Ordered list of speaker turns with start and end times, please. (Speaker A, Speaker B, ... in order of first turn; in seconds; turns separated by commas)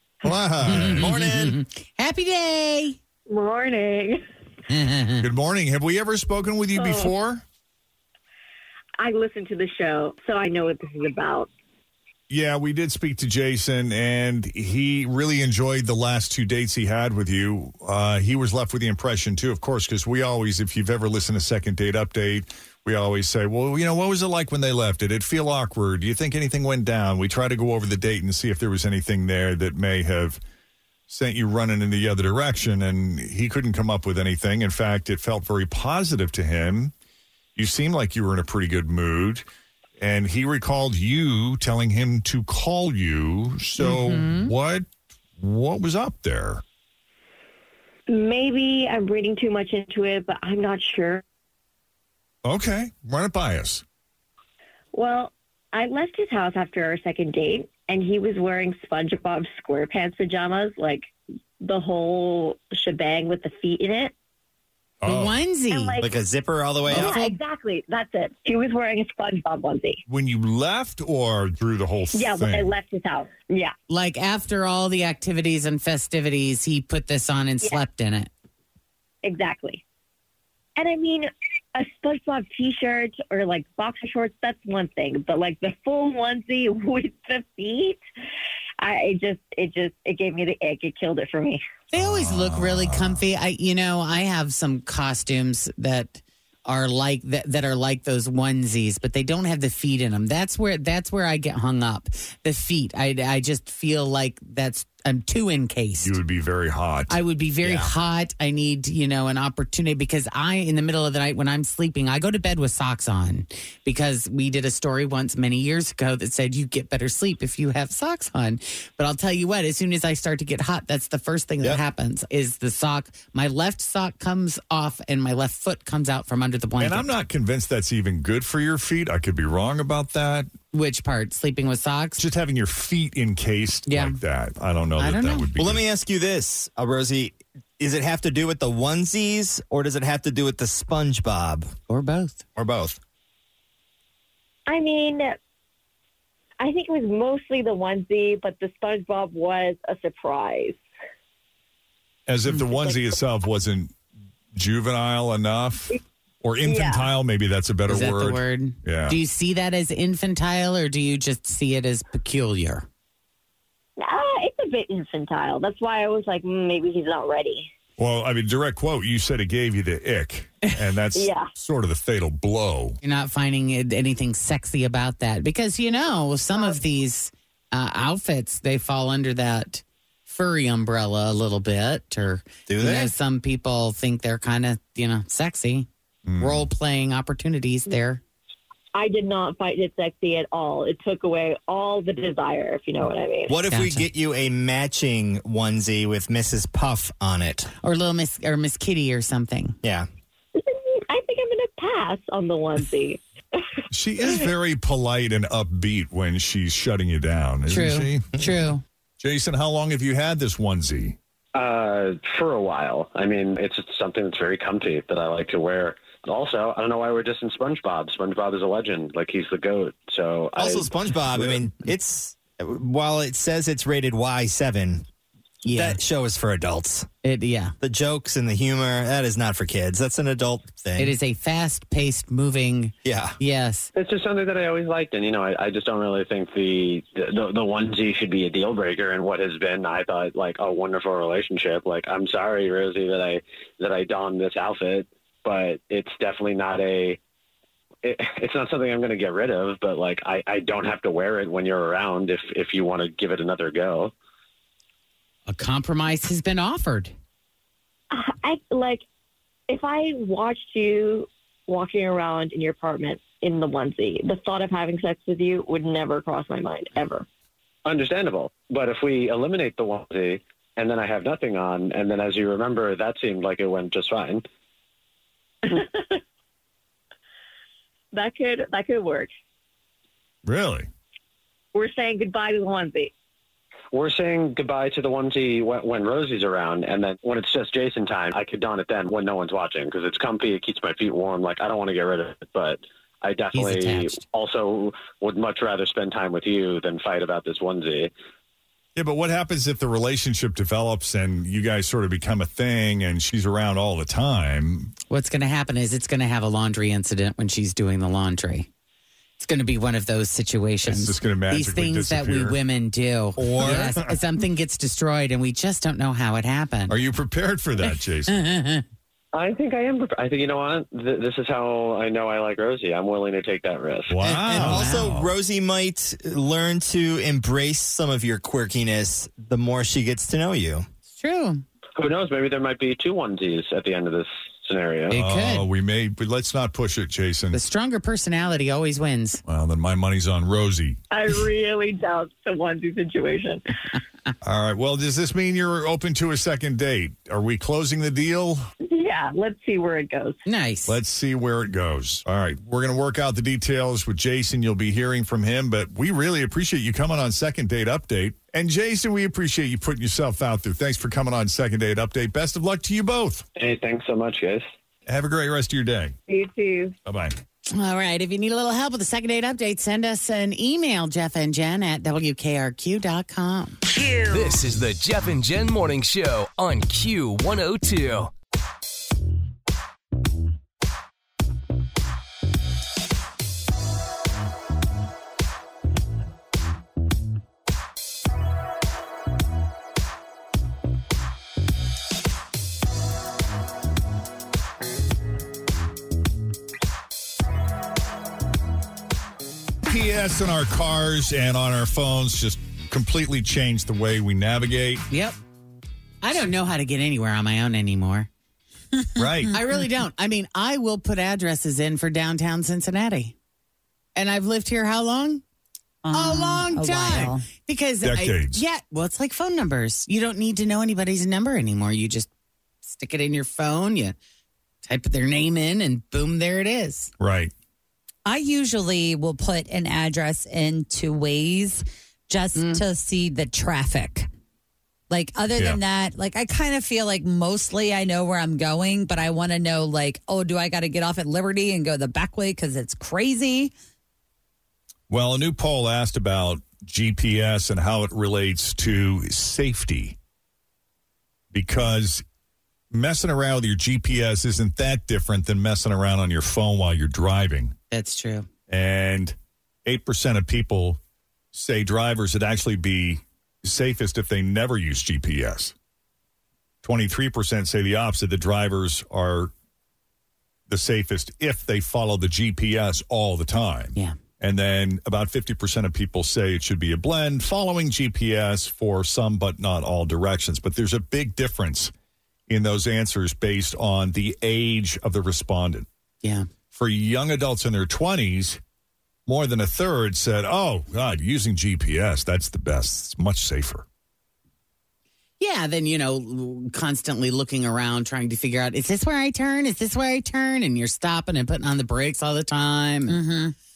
Speaker A: 0.2-1.1, Speaker B: 0.6-3.0, Speaker C: 0.9-1.6, Speaker D: 3.2-4.2, Speaker B: 4.7-5.3, Speaker A: 5.2-7.4, Speaker D: 6.8-7.1, Speaker D: 9.0-11.5, Speaker A: 12.3-30.4, Speaker A: 31.1-36.9, Speaker A: 37.5-39.5, Speaker A: 40.0-46.6, Speaker B: 43.8-44.5, Speaker D: 48.1-51.2, Speaker A: 52.4-53.8, Speaker D: 54.9-61.1, Speaker D: 61.6-64.1, Speaker A: 65.0-65.4, Speaker B: 65.0-66.0, Speaker D: 65.7-66.0, Speaker C: 66.0-67.1, Speaker B: 66.9-67.4, Speaker D: 66.9-70.0, Speaker A: 70.1-72.7, Speaker D: 72.1-73.7, Speaker B: 73.9-78.3, Speaker D: 79.2-79.8, Speaker D: 80.8-88.0, Speaker D: 88.8-91.6, Speaker B: 91.9-106.2, Speaker A: 91.9-93.2, Speaker A: 106.0-107.2, Speaker B: 107.1-127.1, Speaker C: 107.6-107.9, Speaker A: 126.8-130.5, Speaker B: 130.7-132.2, Speaker A: 132.2-135.8, Speaker B: 133.9-134.2, Speaker B: 135.0-135.5, Speaker C: 135.6-141.7, Speaker B: 141.9-142.4, Speaker C: 142.6-143.0, Speaker D: 144.7-145.4, Speaker D: 146.6-150.8, Speaker A: 152.3-153.9, Speaker A: 154.5-159.2, Speaker D: 156.6-157.1, Speaker B: 157.9-162.8, Speaker D: 164.0-167.7, Speaker A: 168.0-173.0, Speaker D: 171.1-171.5, Speaker B: 173.0-185.9, Speaker C: 182.7-183.1, Speaker A: 186.3-186.7, Speaker B: 186.4-188.2, Speaker D: 188.9-193.5, Speaker C: 193.5-197.7, Speaker B: 193.7-194.1, Speaker B: 197.8-199.8, Speaker C: 199.8-200.1, Speaker D: 200.5-203.2, Speaker A: 203.9-208.4, Speaker B: 207.7-208.8, Speaker A: 209.2-211.2, Speaker E: 211.5-220.9, Speaker C: 220.6-225.0, Speaker C: 225.6-227.1, Speaker B: 225.7-226.0, Speaker B: 227.2-227.7, Speaker C: 227.8-231.2, Speaker B: 231.0-233.9, Speaker C: 233.0-233.4, Speaker E: 233.9-247.2, Speaker E: 248.0-254.1, Speaker B: 255.5-257.1, Speaker D: 258.1-259.0, Speaker D: 259.7-267.2, Speaker E: 267.8-274.4, Speaker D: 275.6-276.2, Speaker D: 278.1-279.3, Speaker A: 280.4-280.9, Speaker D: 281.7-283.1, Speaker E: 283.9-298.1, Speaker B: 293.5-294.2, Speaker A: 298.9-304.9, Speaker B: 305.1-308.7, Speaker B: 309.4-316.9, Speaker A: 310.8-312.6, Speaker A: 313.4-314.2, Speaker A: 316.9-318.4, Speaker B: 318.3-318.8, Speaker E: 319.3-324.2, Speaker A: 324.1-325.3, Speaker C: 324.2-330.9, Speaker B: 324.4-325.1, Speaker B: 331.1-331.6, Speaker E: 331.9-335.1, Speaker B: 335.1-335.6, Speaker A: 335.1-337.6, Speaker B: 337.5-339.4, Speaker A: 339.5-341.0, Speaker D: 341.1-343.7, Speaker A: 344.4-348.7, Speaker D: 348.9-350.4, Speaker B: 350.4-350.9, Speaker A: 350.9-363.4, Speaker E: 363.6-364.6, Speaker A: 365.1-366.1, Speaker D: 366.3-366.9, Speaker A: 367.0-367.3, Speaker B: 367.7-373.8, Speaker F: 374.2-378.3, Speaker A: 399.9-405.1, Speaker B: 405.1-405.4, Speaker B: 406.2-408.3, Speaker A: 409.2-409.6, Speaker B: 409.5-413.3, Speaker B: 414.1-415.4, Speaker G: 416.0-417.4, Speaker B: 416.1-422.3, Speaker A: 418.0-418.6, Speaker B: 422.8-424.1, Speaker B: 424.8-427.1, Speaker A: 427.2-427.5, Speaker G: 428.2-434.3, Speaker B: 432.5-432.8, Speaker G: 435.1-443.7, Speaker A: 445.1-450.2, Speaker A: 451.5-452.2, Speaker A: 452.9-457.7, Speaker B: 457.9-458.5, Speaker A: 458.7-461.0, Speaker A: 461.5-465.7, Speaker A: 466.8-469.5, Speaker A: 470.7-481.9, Speaker A: 482.5-485.9, Speaker B: 486.2-486.5, Speaker A: 486.7-488.6, Speaker A: 489.2-493.8, Speaker B: 495.4-503.1, Speaker G: 503.1-503.5